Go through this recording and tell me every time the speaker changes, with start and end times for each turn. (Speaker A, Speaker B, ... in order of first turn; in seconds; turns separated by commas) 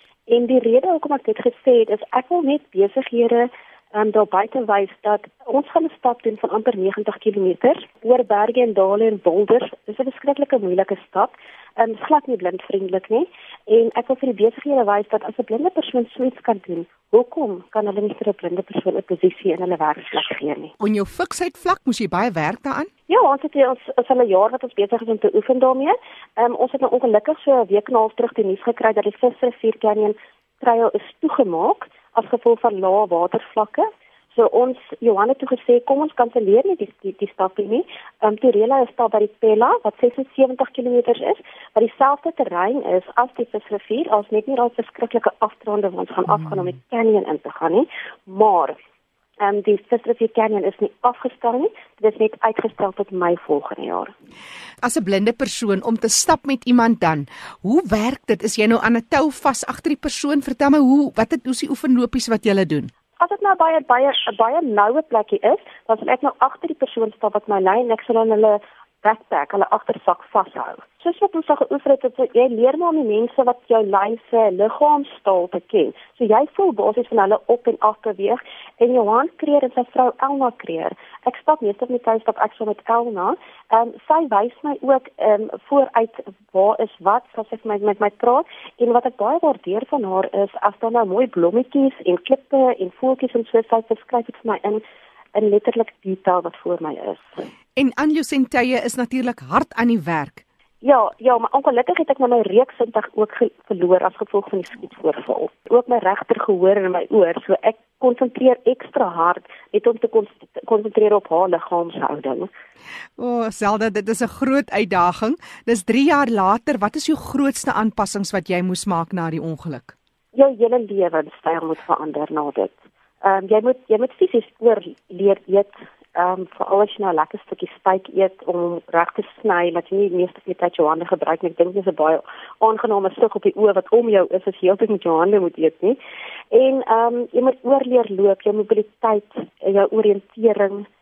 Speaker A: 0.3-20.7, Speaker B: 20.8-22.9, Speaker A: 23.1-48.8, Speaker A: 49.4-54.1, Speaker B: 54.8-62.9, Speaker A: 63.2-94.8, Speaker A: 95.3-97.2, Speaker B: 97.8-100.4, Speaker A: 100.8-112.5, Speaker B: 113.2-119.9, Speaker A: 120.3-136.0, Speaker A: 136.5-140.9